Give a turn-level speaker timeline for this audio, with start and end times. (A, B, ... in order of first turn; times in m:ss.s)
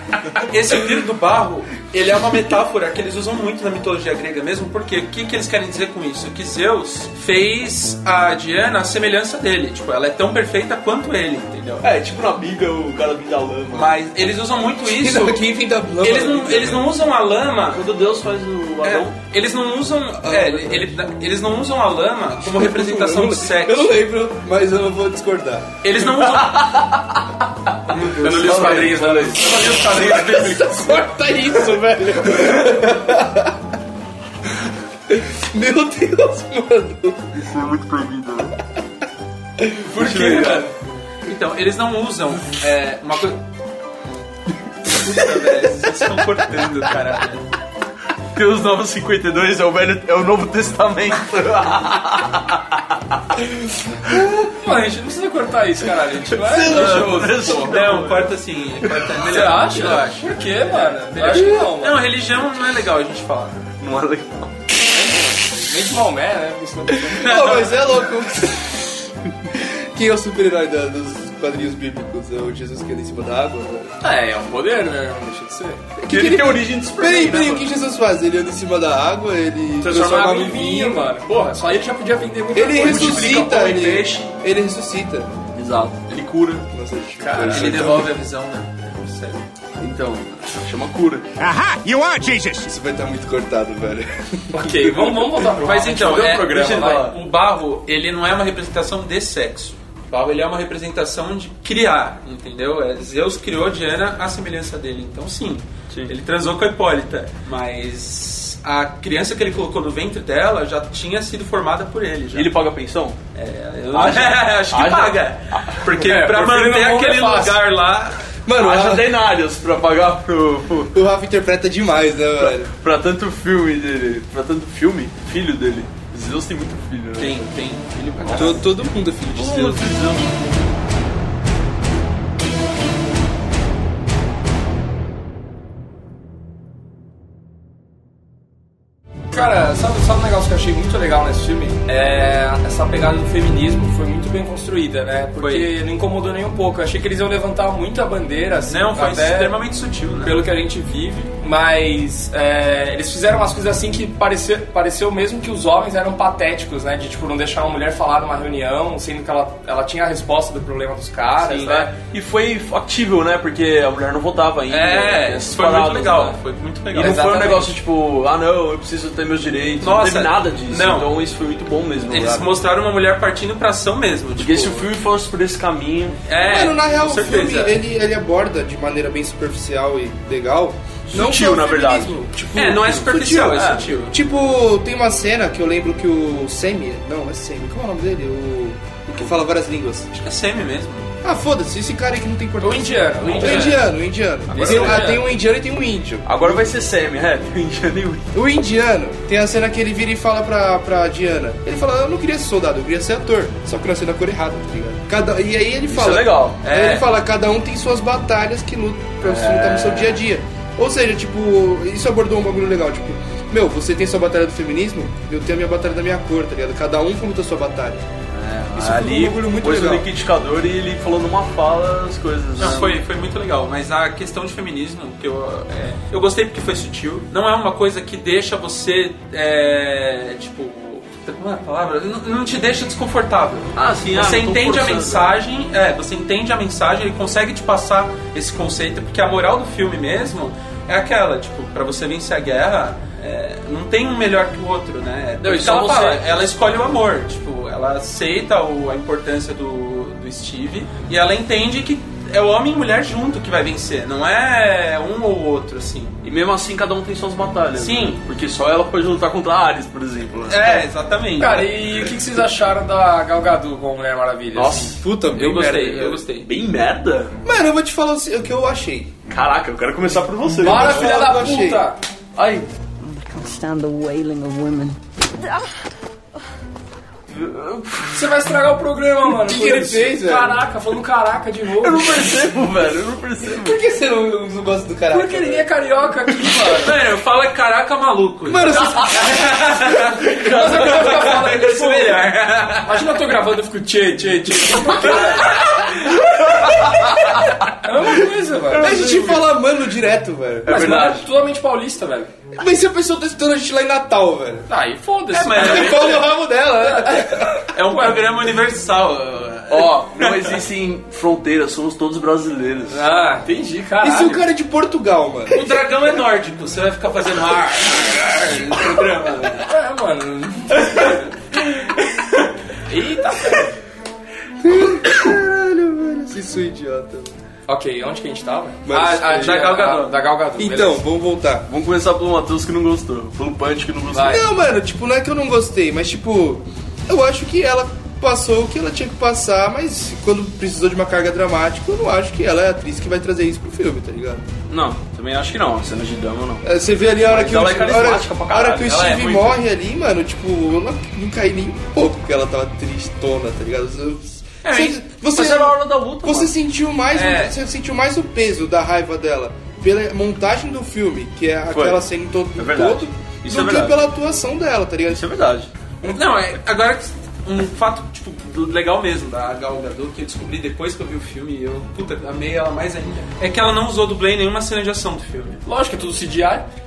0:00.4-0:11.8 A
0:11.8-0:13.9 B
0:13.7-0:15.4 A
0:14.8-0:16.9 C
0:16.0-0:17.9 A
0:17.7-0:19.1 B
0:18.8-0:24.0 A
0:20.2-0:20.9 C
0:22.4-0:25.7 C
0:25.8-0:26.8 A
0:26.0-0:27.2 B
0:27.9-0:30.4 A
0:28.2-0:30.4 B
0:28.3-0:29.6 D
0:29.5-0:33.6 C
0:35.1-0:37.4 C
0:37.4-0:38.5 B
0:39.6-0:40.5 C
0:39.9-0:40.7 B
0:40.1-0:40.6 A
0:41.2-0:43.4 A
0:44.9-0:47.5 A
0:48.3-0:52.8 B
0:54.4-0:57.8 D
0:56.3-0:58.3 B
0:56.7-1:03.6 A
0:59.2-1:02.0 D
1:03.8-1:04.6 B
1:04.9-1:07.5 D
1:07.2-1:08.9 C
1:07.2-1:08.0 A
1:09.5-1:13.9 C
1:14.0-1:15.8 D
1:16.0-1:21.1 C
1:16.0-1:17.6 B
1:19.8-1:23.4 D
1:22.5-1:25.3 C
1:22.9-1:24.0 B
1:22.9-1:23.9 A
1:25.6-1:26.7 B
1:26.7-1:28.1 C
1:27.2-1:27.8 D
1:27.3-1:28.1 B
1:27.5-1:29.4 A
1:29.8-1:31.3 B
1:32.6-1:34.9 C
1:34.5-1:37.0 D
1:35.6-1:37.2 B
1:35.6-1:52.5 A
1:52.3-1:53.2 B
1:53.4-1:58.2 A
1:53.9-1:56.3 B
1:56.1-1:57.6 D
1:58.4-1:59.2 C
1:58.6-2:01.0 B
2:00.9-2:02.7 C
2:02.4-2:07.4 B
2:07.2-2:08.9 A
2:08.2-2:08.6 B
2:08.3-2:10.0 C
2:09.3-2:10.4 B
2:19.3-2:29.5 D
2:25.4-2:25.7 A
2:28.7-2:30.4 A
2:30.2-2:41.9 D
2:41.4-2:41.9 A
2:41.9-2:46.4 B
2:44.7-2:47.2 A
2:46.9-2:52.5 B
2:46.9-2:47.7 D
2:49.8-2:51.1 A
2:52.1-2:54.9 A
2:54.4-2:56.2 B
2:56.3-2:57.8 A
2:56.4-3:10.1 C
3:01.1-3:02.2 B
3:02.6-3:04.2 A
3:03.5-3:03.9 B
3:10.1-3:11.1 A
3:11.2-3:16.7 C
3:12.6-3:13.9 D
3:13.4-3:13.7 A
3:14.5-3:15.3 D
3:14.6-3:15.0 B
3:16.2-3:18.3 B
3:18.3-3:38.0 C
3:25.9-3:26.6 B
3:26.6-3:27.0 A
3:29.2-3:30.2 B
3:38.3-3:43.0 B
3:38.7-3:40.1 C
3:42.6-4:16.2 A
3:53.8-3:55.3 B
4:05.4-4:06.2 B
4:16.2-4:20.8 B
4:17.8-4:18.2 A
4:20.4-4:21.7 A
4:21.4-4:24.9 D
4:24.5-4:25.0 B
4:25.0-4:26.2 C
4:25.3-4:26.5 A
4:25.6-4:27.3 B
4:27.4-4:29.1 C
4:29.3-4:31.1 B
4:30.6-4:31.8 C
4:30.6-4:32.0 D
4:32.4-4:32.7 B
4:33.0-4:35.0 E
4:37.3-4:38.4 B
4:38.1-4:42.5 D
4:39.3-4:40.6 C
4:41.8-4:43.8 B
4:43.4-4:45.7 C
4:45.1-4:46.9 D
4:46.8-4:53.2 A
4:48.4-4:50.1 C
4:50.4-4:52.2 D
4:52.8-4:55.8 D
4:55.1-4:56.1 A
4:56.8-4:59.4 D
4:58.7-5:01.0 C
5:00.6-5:01.2 B
5:00.7-5:02.3 D
5:02.6-5:04.7 C
5:04.7-5:06.2 D
5:05.3-5:06.2 A
5:05.5-5:07.7 C
5:06.9-5:07.3 D
5:07.7-5:10.6 A
5:09.7-5:13.0 B
5:12.9-5:14.4 D
5:14.0-5:15.6 C
5:15.5-5:19.7 A
5:19.7-5:21.3 D
5:22.9-5:23.7 D
5:24.6-5:27.3 C
5:27.7-5:31.0 D
5:28.9-5:31.7 C
5:29.4-5:30.1 A
5:31.7-5:34.4 B
5:34.1-5:34.4 D
5:34.2-5:44.5 C
5:44.7-5:46.6 B
5:46.6-6:05.3 C
5:47.2-5:49.4 B
5:48.9-5:49.4 A
5:54.6-5:55.0 A
5:55.2-5:56.5 B
5:57.1-5:57.5 D
6:01.7-6:02.0 B
6:02.6-6:04.0 B
6:05.1-6:05.7 B
6:06.0-6:15.6 A
6:15.6-6:16.6 D